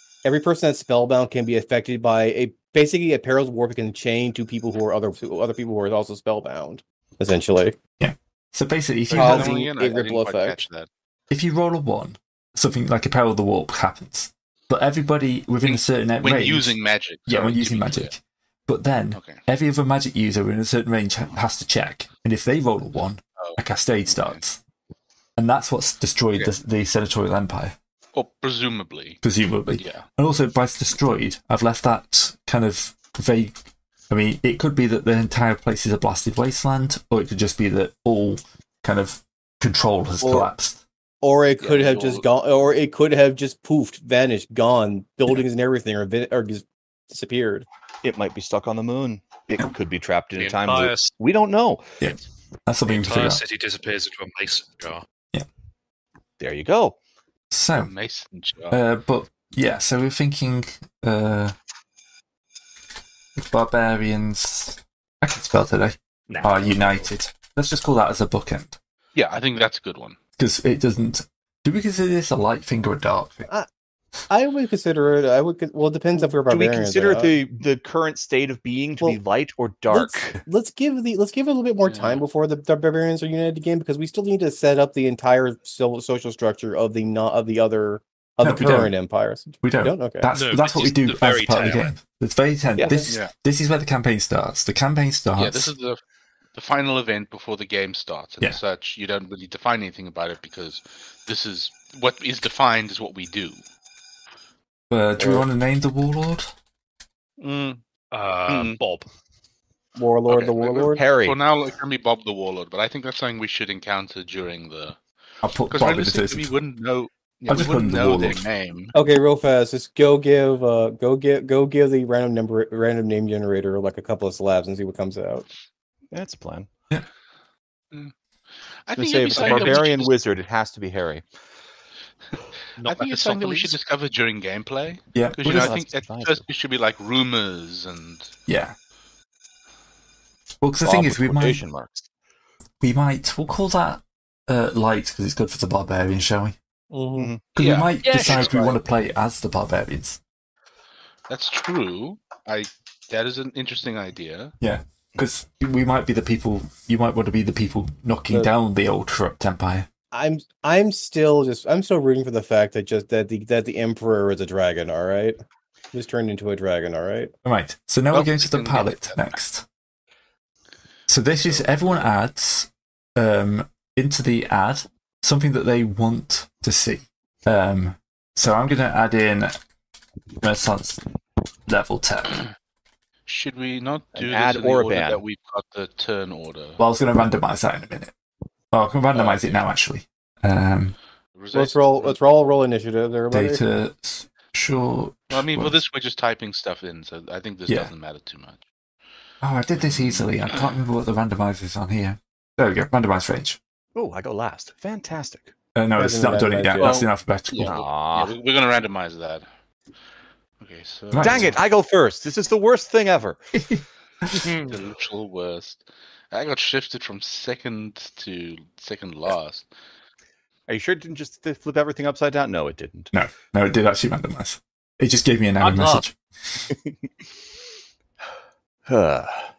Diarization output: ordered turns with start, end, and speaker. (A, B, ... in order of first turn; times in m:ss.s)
0:00.2-0:07.8 A
0:08.0-0:09.5 B
0:09.1-0:10.9 C
0:09.1-0:10.6 A
0:11.3-0:24.6 B
0:15.6-0:18.1 C
0:19.1-0:19.4 C
0:23.4-0:24.4 C
0:25.4-0:27.8 B
0:28.1-0:30.0 C
0:29.2-0:33.6 B
0:34.1-0:40.8 B
0:40.2-0:40.5 A
0:41.2-0:47.7 A
0:41.6-0:42.2 C
0:48.0-0:51.9 D
0:50.4-0:51.1 E
0:52.0-0:53.4 B
0:52.9-0:55.0 E
0:56.4-0:57.0 D
0:57.5-0:57.9 B
0:57.8-0:58.8 C
0:58.7-1:01.5 B
1:03.4-1:08.8 B
1:06.3-1:06.9 E
1:09.1-1:10.2 C
1:10.4-1:13.5 B
1:14.3-1:17.3 A
1:16.4-1:20.4 D
1:19.9-1:30.3 A
1:21.9-1:22.2 C
1:28.4-1:28.9 B
1:29.6-1:35.7 B
1:30.3-1:31.9 E
1:32.8-1:33.1 A
1:35.4-1:36.0 C
1:36.5-1:43.6 C
1:44.9-1:46.5 B
1:45.2-1:45.4 A
1:47.4-1:47.8 C
1:48.1-1:49.0 E
1:48.5-1:48.8 C
1:50.0-1:51.0 A
1:50.3-1:55.0 C
1:50.9-1:51.4 D
1:55.4-1:56.5 B
1:55.7-1:58.9 C
1:57.5-1:58.4 B
1:58.9-2:05.4 A
2:06.1-2:06.7 D
2:08.9-2:10.2 C
2:08.9-2:11.2 D
2:09.3-2:09.7 E
2:12.8-2:13.8 E
2:12.8-2:18.3 C
2:15.1-2:15.8 B
2:15.5-2:16.4 D
2:18.5-2:18.8 B
2:20.6-2:21.6 B
2:20.8-2:22.0 D
2:22.8-2:26.5 B
2:26.9-2:27.3 A
2:27.1-2:27.4 D
2:27.5-2:30.2 B
2:27.6-2:28.6 C
2:28.0-2:28.8 E
2:31.3-2:34.5 C
2:34.6-2:39.9 B
2:40.1-2:45.4 A
2:45.9-2:47.3 A
2:47.4-2:49.6 B
2:48.1-2:49.3 C
2:51.1-2:59.6 B
3:00.4-3:01.0 B
3:01.7-3:02.4 B
3:03.2-3:06.8 C
3:04.1-3:05.2 D
3:06.8-3:08.1 B
3:08.7-3:10.9 B
3:09.1-3:09.4 C
3:11.4-3:12.2 C
3:11.5-3:13.6 A
3:13.3-3:15.8 B
3:15.3-3:18.6 C
3:19.4-3:23.6 B
3:19.8-3:20.6 C
3:23.9-3:25.5 D
3:25.8-3:27.8 B
3:26.0-3:27.0 A
3:26.8-3:29.4 C
3:27.6-3:28.3 D
3:30.6-3:31.6 C
3:31.1-3:31.5 B
3:31.2-3:33.4 D
3:33.5-3:34.5 B
3:34.4-3:34.7 E
3:34.7-3:39.7 C
3:40.7-3:43.1 D
3:43.1-3:46.1 B
3:45.6-3:46.0 E
3:46.7-3:47.0 D
3:48.9-3:49.5 D